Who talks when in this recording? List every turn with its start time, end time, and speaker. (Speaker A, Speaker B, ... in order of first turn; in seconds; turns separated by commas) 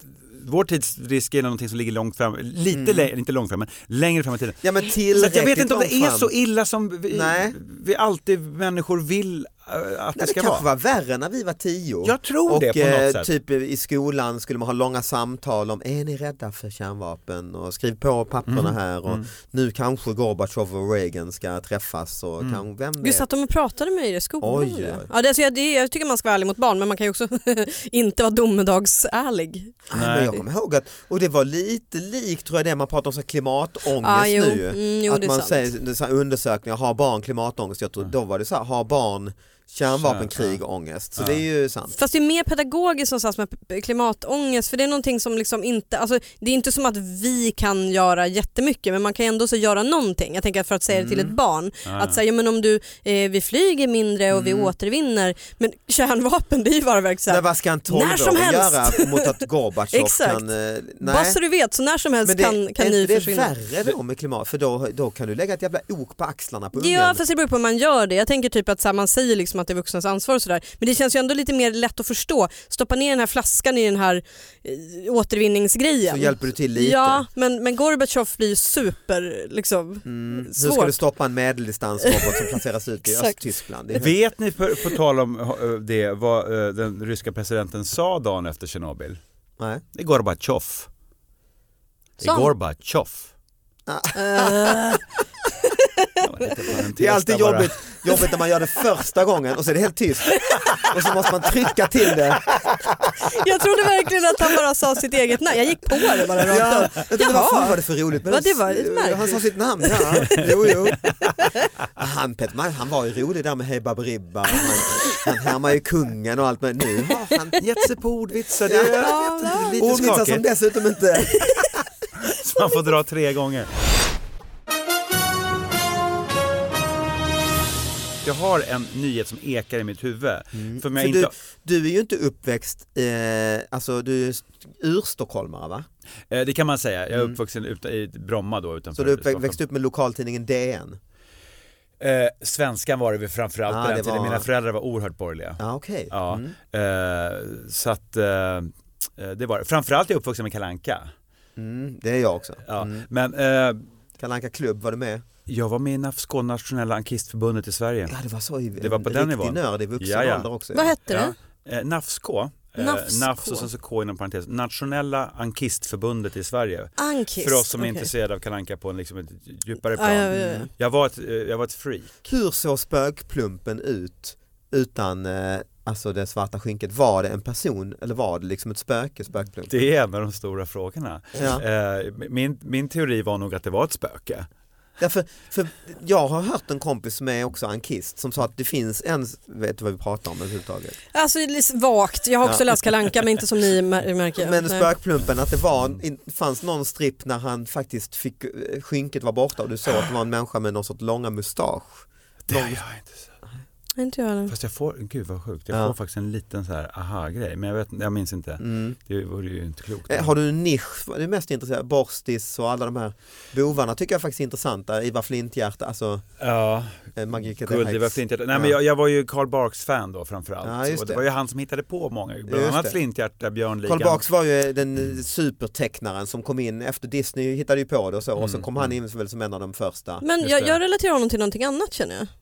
Speaker A: 0.3-10.7, Speaker B: 2.7-3.1, Speaker B: 4.6-6.3, Speaker B: 7.1-7.5, Speaker B: 10.2-23.2, Speaker A: 12.0-13.3, Speaker A: 18.5-19.2, Speaker C: 23.0-29.8, Speaker B: 24.4-25.1, Speaker B: 29.9-41.9, Speaker A: 29.9-30.4, Speaker C: 34.0-35.6, Speaker A: 39.9-40.6, Speaker A: 41.2-41.4, Speaker C: 41.9-59.3, Speaker B: 50.9-51.3, Speaker A: 51.8-52.2, Speaker B: 54.3-54.7, Speaker B: 57.3-61.4, Speaker C: 59.9-60.4, Speaker C: 61.0-63.5, Speaker B: 62.2-67.2, Speaker C: 66.7-81.0, Speaker B: 76.1-77.2, Speaker B: 80.0-84.1, Speaker C: 82.0-83.4, Speaker A: 83.9-89.2, Speaker A: 89.9-90.9, Speaker A: 92.2-93.3, Speaker C: 92.2-92.5, Speaker B: 93.9-94.8, Speaker C: 94.1-95.0, Speaker C: 95.6-96.2, Speaker A: 96.2-97.7, Speaker B: 96.9-103.4, Speaker C: 100.3-100.6, Speaker C: 103.2-110.7, Speaker B: 106.4-111.1, Speaker B: 112.0-117.6, Speaker A: 117.6-120.4, Speaker B: 118.7-119.2, Speaker C: 118.8-120.1, Speaker B: 119.7-121.8, Speaker C: 121.3-121.7, Speaker A: 122.2-123.7, Speaker A: 128.2-131.3, Speaker B: 130.6-135.9, Speaker A: 136.3-139.6, Speaker B: 138.9-141.0, Speaker A: 142.0-151.1, Speaker B: 143.7-144.5, Speaker B: 145.6-146.5, Speaker B: 151.6-153.1, Speaker A: 152.6-153.8, Speaker B: 154.2-155.2, Speaker A: 155.5-158.2, Speaker B: 158.1-160.9, Speaker A: 158.8-160.5, Speaker C: 160.7-161.3, Speaker A: 161.1-172.1, Speaker C: 162.8-163.7, Speaker C: 167.0-168.1, Speaker C: 169.9-170.7, Speaker B: 170.3-170.7, Speaker B: 172.2-179.8, Speaker A: 179.7-184.5, Speaker B: 181.3-181.6, Speaker B: 185.0-191.0, Speaker C: 191.1-194.9, Speaker B: 194.4-202.8, Speaker A: 202.5-203.3, Speaker C: 204.0-204.5, Speaker A: 204.5-210.3, Speaker B: 208.6-209.0, Speaker B: 210.1-216.2, Speaker A: 216.4-224.2, Speaker B: 217.2-218.7, Speaker B: 220.6-221.2, Speaker B: 222.5-222.9, Speaker B: 223.8-230.2, Speaker A: 228.4-228.9, Speaker C: 230.2-232.3, Speaker A: 230.4-230.8